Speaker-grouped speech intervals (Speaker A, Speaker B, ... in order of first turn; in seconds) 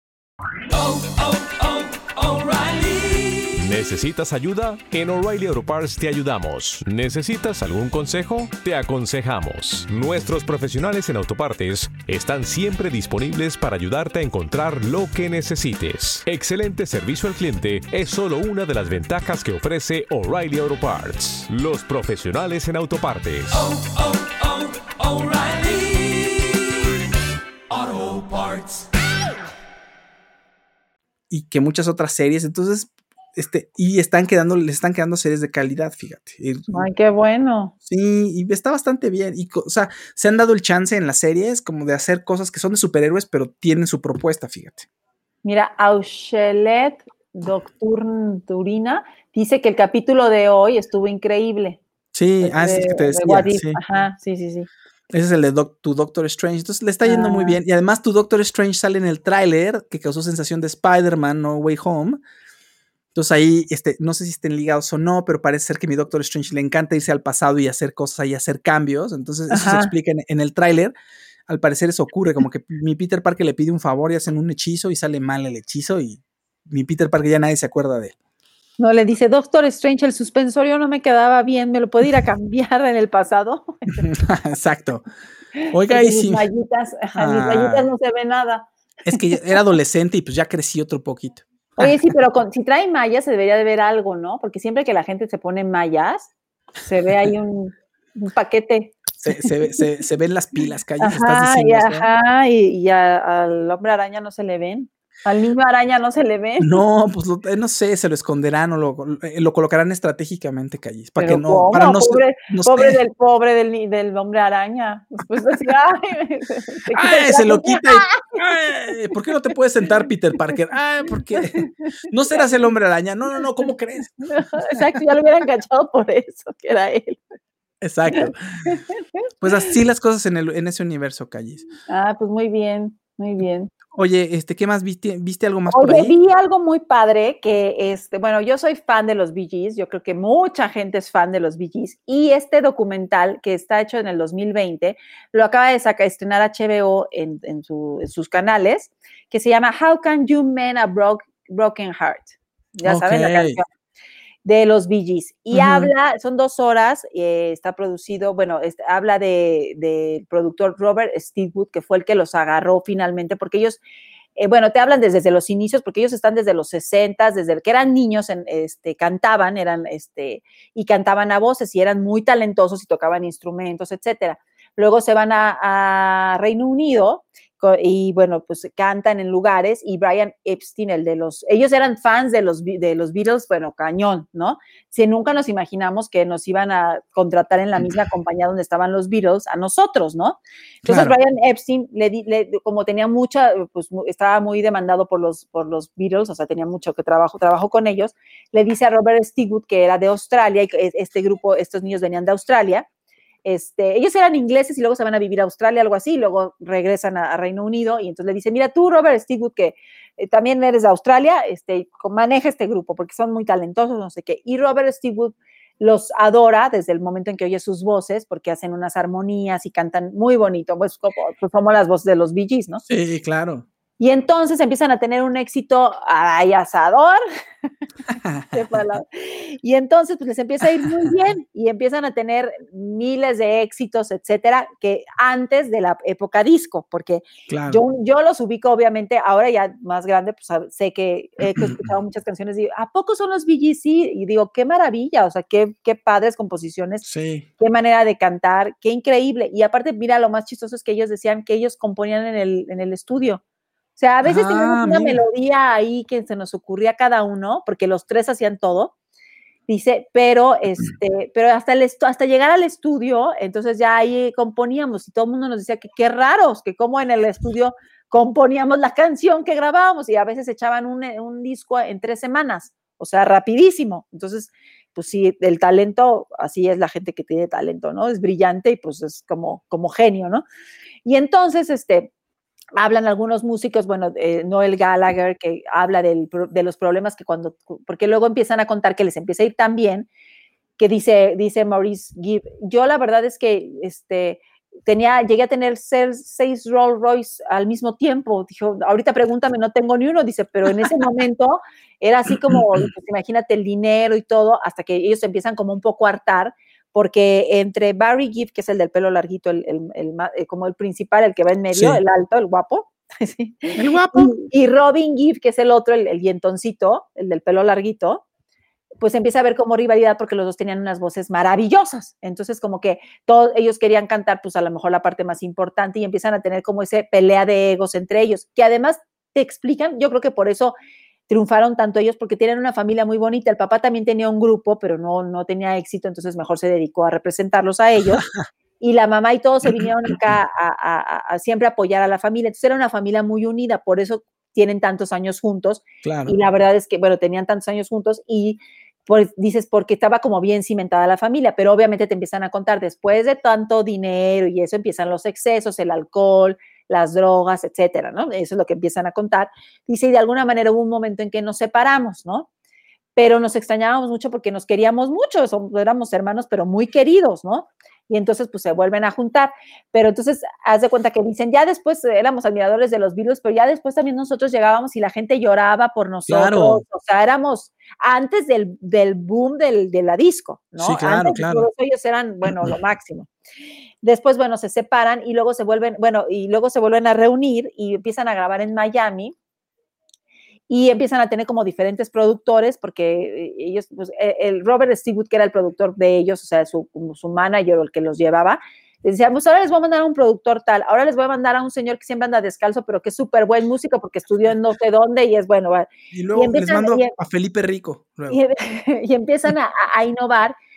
Speaker A: 0.7-26.6, 27.7-28.8
Speaker B: 31.3-36.9, 37.8-44.9, 52.1-53.8, 55.1-62.2, 63.1-70.9, 71.5-78.1, 84.0-85.0, 85.7-86.5, 87.1-87.9, 89.0-92.1, 99.2-102.1, 106.6-113.0, 116.9-124.8, 127.8-128.6, 129.4-131.7, 133.9-136.1, 152.8-153.6, 155.5-155.9, 190.8-191.2, 222.8-223.7, 228.1-228.6, 237.5-237.8, 247.0-247.5, 254.2-255.2, 311.7-312.0, 313.8-314.4, 346.0-346.3, 376.3-376.8, 380.8-381.7, 382.5-382.7, 406.1-408.4
Speaker C: 36.7-37.7, 45.4-51.8, 52.4-54.7, 57.0-57.6, 69.5-69.9, 78.8-84.1, 85.5-89.5, 91.8-99.8, 101.0-106.7, 111.2-118.4, 121.4-122.5, 124.3-127.2, 128.1-129.0, 131.9-133.7, 135.7-153.7, 154.4-163.8, 164.4-202.8, 203.4-222.8, 224.0-227.2, 228.5-247.0, 247.6-253.4, 253.9-258.9, 259.7-280.4, 281.0-282.1, 282.8-290.1, 290.8-318.2, 319.0-330.7, 331.3-338.2, 338.8-362.5, 363.1-383.3, 384.0-389.3, 390.7-407.1, 408.3-410.5